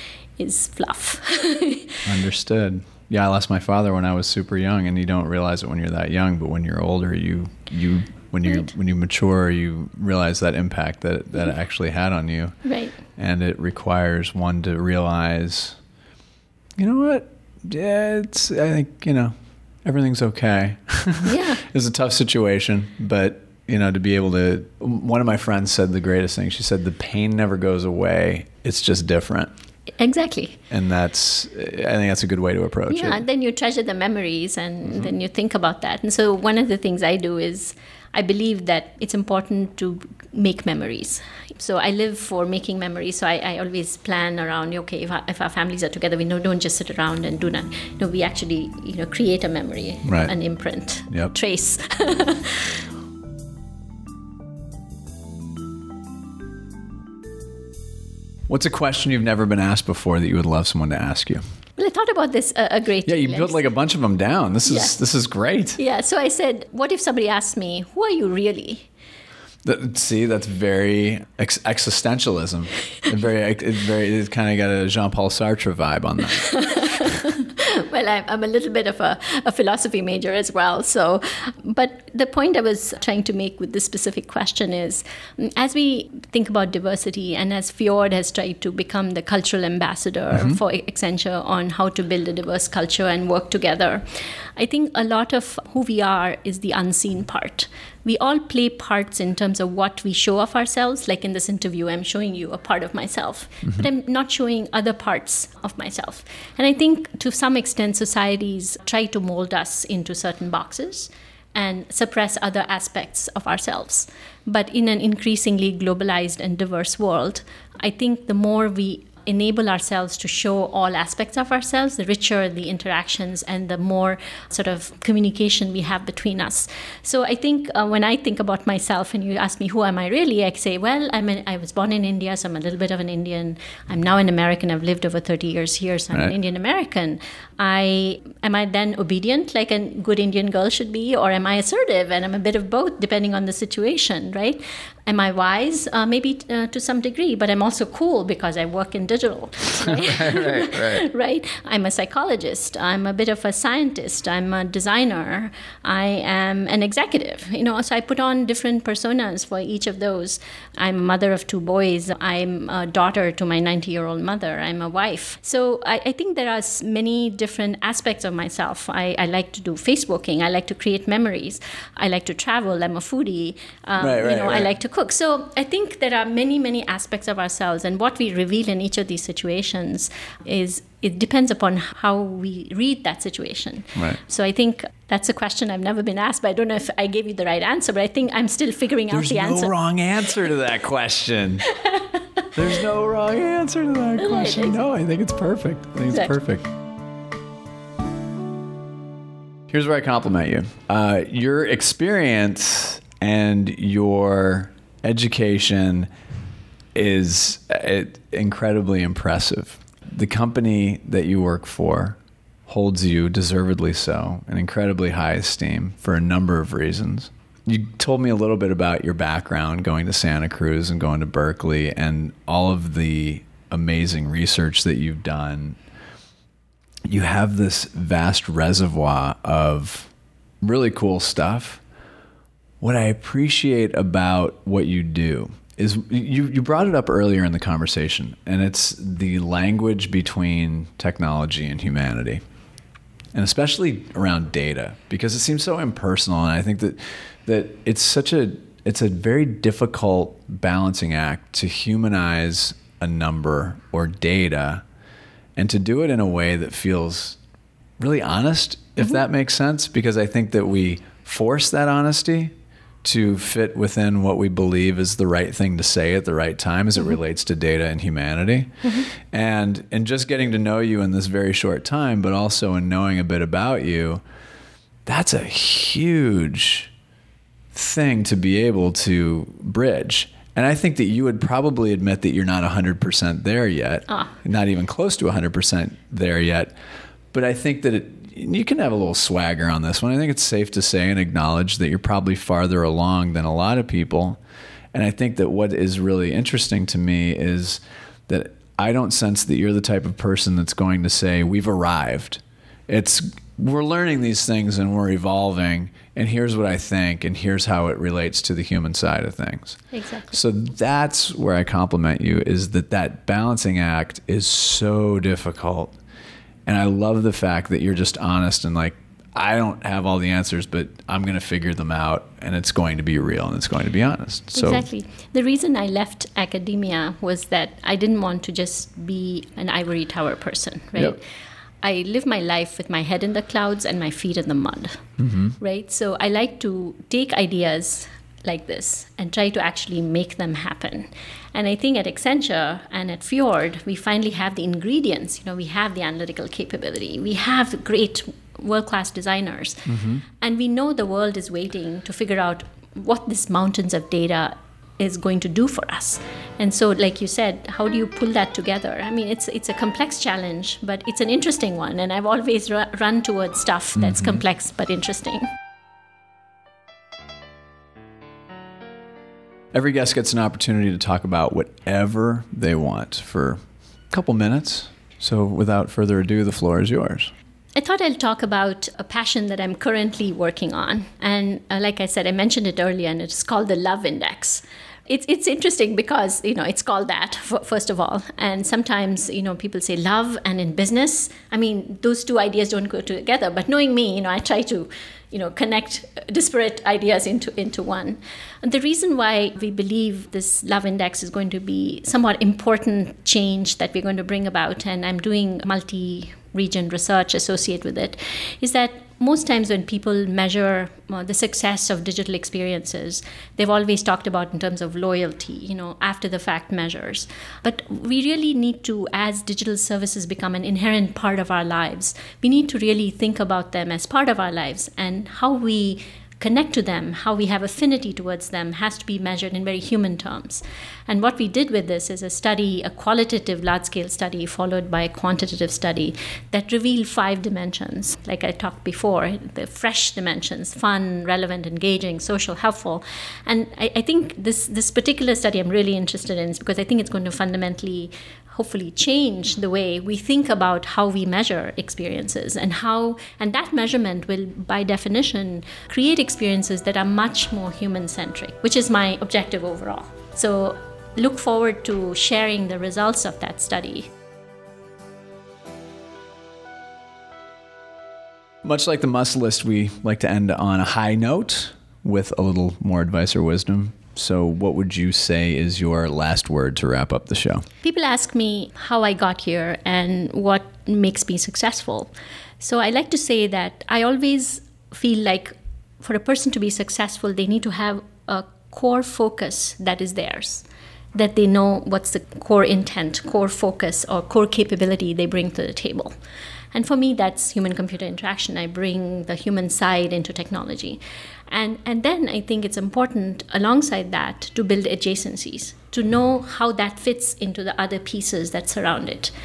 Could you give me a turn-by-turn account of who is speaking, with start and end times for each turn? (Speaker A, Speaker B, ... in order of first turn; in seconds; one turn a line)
Speaker A: 0.4-2.0
Speaker B: 2.0-15.8
Speaker A: 12.6-12.9
Speaker B: 16.8-19.3
Speaker B: 19.8-29.5
Speaker A: 21.2-21.6
Speaker A: 30.0-30.6
Speaker B: 30.7-33.2
Speaker A: 32.9-52.8
Speaker B: 50.0-50.3
Speaker B: 51.1-51.3
Speaker B: 58.5-61.4
Speaker A: 61.8-63.6
Speaker B: 63.0-65.8
Speaker A: 64.6-65.0
Speaker A: 65.8-68.9
Speaker B: 69.6-77.0
Speaker A: 76.4-189.7
Speaker B: 149.8-151.1
Speaker B: 174.0-174.7
Speaker B: 183.9-184.2
Speaker B: 189.1-191.7
Speaker A: 191.7-192.4
Speaker B: 192.5-196.7
Speaker A: 194.2-194.8
Speaker A: 196.1-196.3
Speaker B: 199.7-206.1
Speaker B: 206.9-225.8
Speaker B: 227.1-230.1
Speaker B: 230.6-231.8
Speaker B: 232.8-242.4
Speaker B: 243.3-254.8
Speaker B: 255.6-257.4
Speaker B: 258.0-262.5
Speaker B: 263.0-274.2
Speaker B: 275.1-276.9
Speaker B: 277.7-286.7
Speaker A: 284.1-284.3
Speaker B: 287.3-294.4
Speaker B: 294.9-309.8
Speaker A: 309.9-310.4
Speaker B: 310.3-315.9
Speaker B: 316.7-324.9
Speaker A: 324.5-331.2
Speaker A: 331.8-365.5
Speaker B: 335.2-335.5
Speaker B: 349.9-350.2
Speaker B: 364.0-364.4
Speaker B: 369.7-373.6
Speaker B: 374.1-377.3
Speaker A: 377.7-464.1
Speaker B: 468.6-477.6
Speaker A: 477.8-496.1
Speaker A: 496.7-509.3